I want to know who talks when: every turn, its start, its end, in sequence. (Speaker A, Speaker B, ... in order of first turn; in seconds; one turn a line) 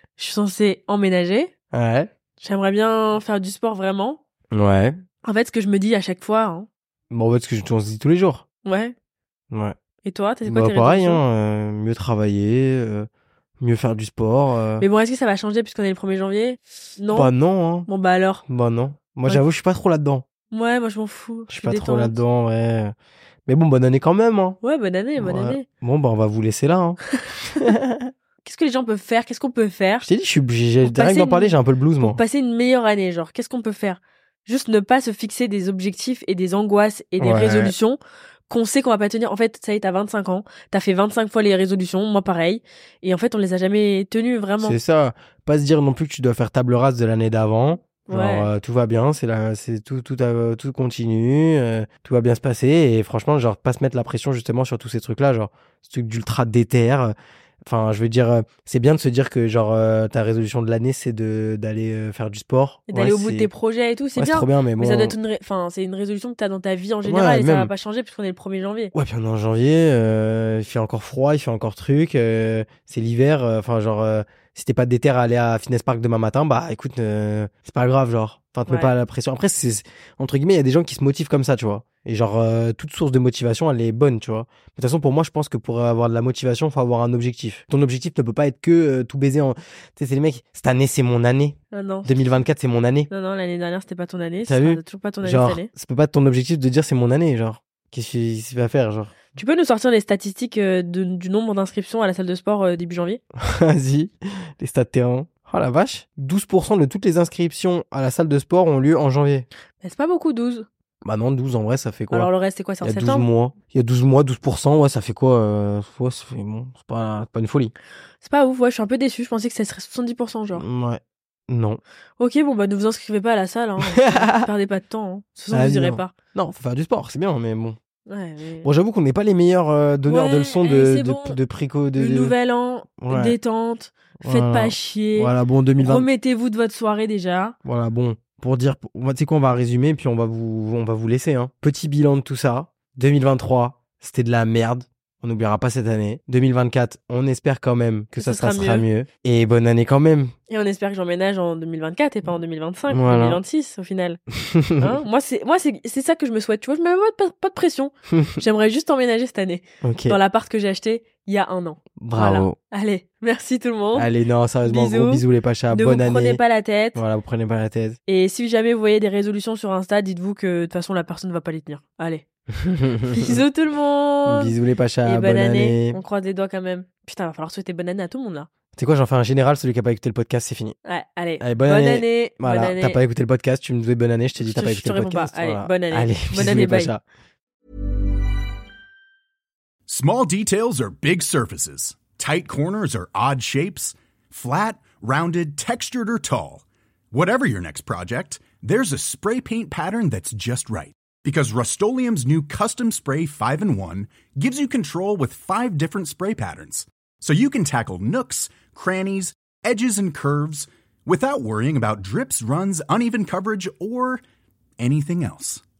Speaker A: 0.2-1.5
Speaker B: 1.7-2.1
Speaker A: 2.4-4.2
Speaker B: 4.5-5.0
Speaker A: 5.2-6.7
Speaker B: 7.1-8.4
Speaker A: 8.7-8.9
Speaker A: 10.0-11.2
Speaker B: 10.4-13.1
Speaker B: 13.6-14.9
Speaker A: 14.8-17.3
Speaker B: 17.1-17.9
Speaker A: 17.9-18.4
Speaker B: 18.5-20.2
Speaker A: 20.5-22.2
Speaker B: 21.5-22.9
Speaker B: 23.5-24.6
Speaker A: 24.6-25.7
Speaker B: 25.2-27.1
Speaker A: 27.1-27.7
Speaker B: 27.6-28.1
Speaker A: 28.4-30.1
Speaker B: 30.0-32.2
Speaker A: 30.8-44.8
Speaker B: 37.2-37.8
Speaker B: 44.6-57.1
Speaker A: 48.1-48.5
Speaker B: 57.7-63.5
Speaker A: 62.9-68.9
Speaker B: 64.2-65.2
Speaker B: 67.0-67.7
Speaker B: 68.9-93.1
Speaker A: 78.7-79.0
Speaker A: 91.7-92.2
Speaker A: 93.1-95.7
Speaker B: 94.5-99.3
Speaker A: 99.3-103.2
Speaker B: 103.4-109.5
Speaker A: 109.8-110.7
Speaker B: 111.0-112.3
Speaker A: 112.1-113.3
Speaker B: 112.8-117.7
Speaker A: 118.2-120.7
Speaker B: 120.5-121.8
Speaker A: 122.2-126.1
Speaker B: 123.8-124.5
Speaker B: 125.5-127.8
Speaker A: 128.1-128.7
Speaker B: 128.6-132.3
Speaker A: 130.1-131.4
Speaker A: 131.9-137.6
Speaker B: 133.0-133.4
Speaker B: 134.2-136.1
Speaker B: 137.7-150.3
Speaker A: 148.2-148.9
Speaker A: 150.5-154.2
Speaker B: 152.9-153.4
Speaker B: 154.4-155.0
Speaker A: 154.8-164.1
Speaker B: 158.1-158.4
Speaker B: 159.8-160.2
Speaker B: 162.0-162.6
Speaker B: 163.9-166.4
Speaker A: 164.7-167.0
Speaker B: 166.9-168.0
Speaker A: 168.1-172.2
Speaker B: 172.6-173.4
Speaker A: 173.1-178.5
Speaker B: 174.2-176.0
Speaker B: 178.8-180.8
Speaker A: 180.8-183.0
Speaker B: 181.4-187.0
Speaker A: 184.4-186.9
Speaker C: 189.9-214.2
Speaker C: 214.8-215.6